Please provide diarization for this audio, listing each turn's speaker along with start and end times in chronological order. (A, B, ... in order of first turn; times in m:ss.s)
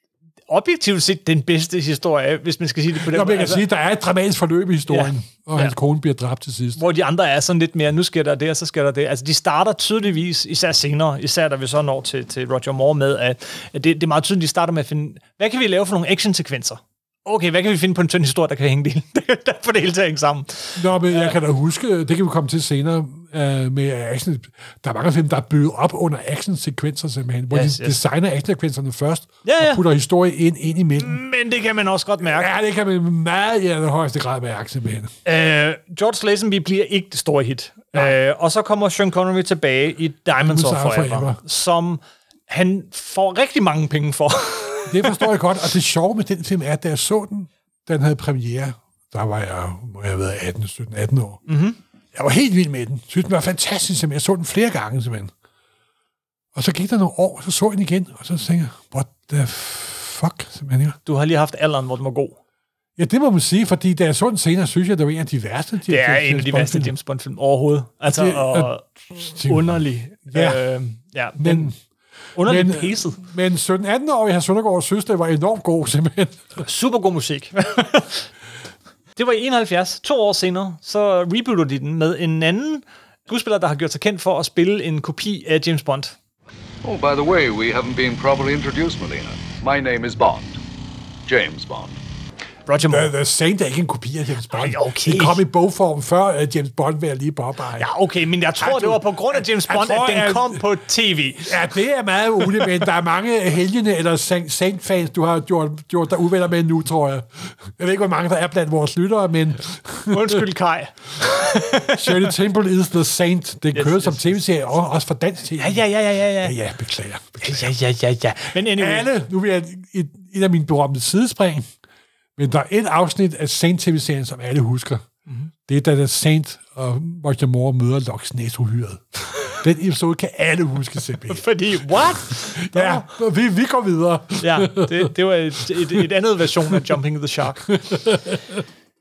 0:00.5-0:03.6 A
0:03.0-0:06.8 B
0:04.9-0:05.8 A
0:06.8-0:21.4 A
0:20.8-0:31.2 B
0:27.5-0:28.0 A
0:29.4-0:29.8 A
0:31.0-0:32.5 A
0:32.2-0:35.1 B
0:35.2-0:45.3 A
0:40.4-0:41.4 B
0:44.9-0:51.4 B
0:51.5-0:51.8 A
0:52.1-0:55.3 B
0:56.5-1:01.0 B
1:01.1-1:02.4 A
1:03.0-1:06.9 B
1:05.9-1:11.7 A
1:08.1-1:10.6 B
1:11.4-1:11.8 B
1:12.4-1:13.2 A
1:12.4-1:16.6 B
1:16.6-1:18.3 A
1:19.2-1:26.2 A
1:26.8-1:29.6 C
1:30.2-1:30.5 C
1:31.4-1:31.9 C
1:32.7-1:33.1 A
1:32.9-1:37.9 B
1:34.5-1:35.4 A
1:37.8-1:41.5 A
1:38.6-1:40.6 B
1:41.4-1:50.4 B
1:50.1-1:52.3 A
1:51.9-1:55.8 B
1:53.7-1:54.4 A
1:55.6-1:56.6 A
1:56.4-1:57.7 B
1:57.4-1:59.1 A
1:58.6-2:01.7 B
2:02.4-2:05.0 B
2:05.7-2:11.4 B
2:11.3-2:13.1 A
2:12.4-2:15.1 B
2:14.4-2:17.6 A
2:15.6-2:16.0 B
2:17.7-2:18.6 B